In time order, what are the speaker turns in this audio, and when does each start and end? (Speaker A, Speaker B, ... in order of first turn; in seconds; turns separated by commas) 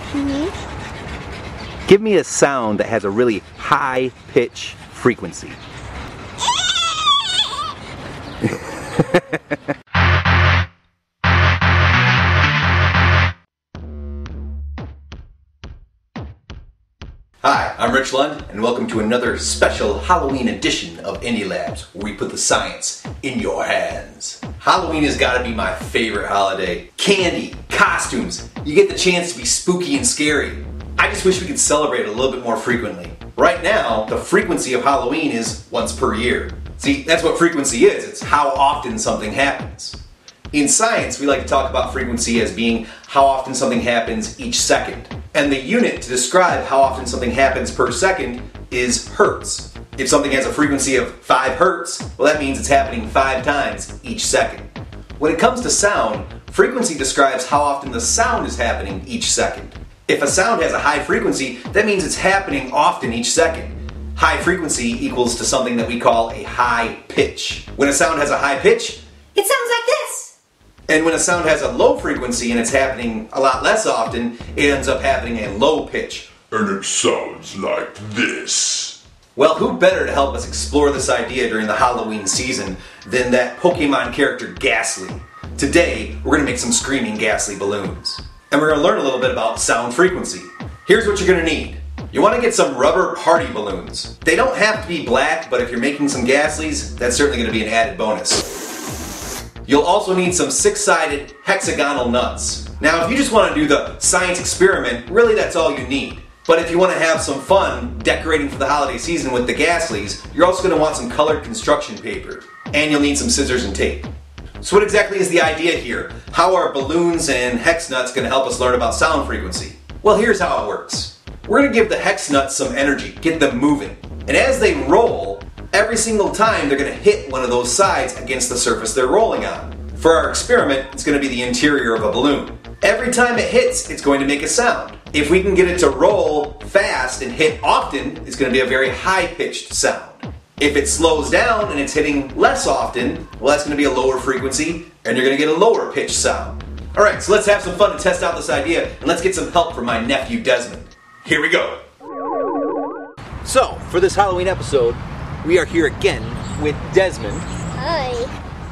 Speaker A: 0.1-0.5, Speaker B: 1.9-5.6, Speaker B: 8.4-9.4, Speaker B: 17.4-40.0, Speaker B: 40.5-69.0, Speaker A: 69.4-70.3, Speaker B: 70.9-76.5, Speaker C: 76.5-79.0, Speaker B: 79.4-98.4, Speaker B: 99.7-114.1, Speaker B: 114.6-151.8, Speaker B: 153.4-157.5, Speaker A: 157.8-158.3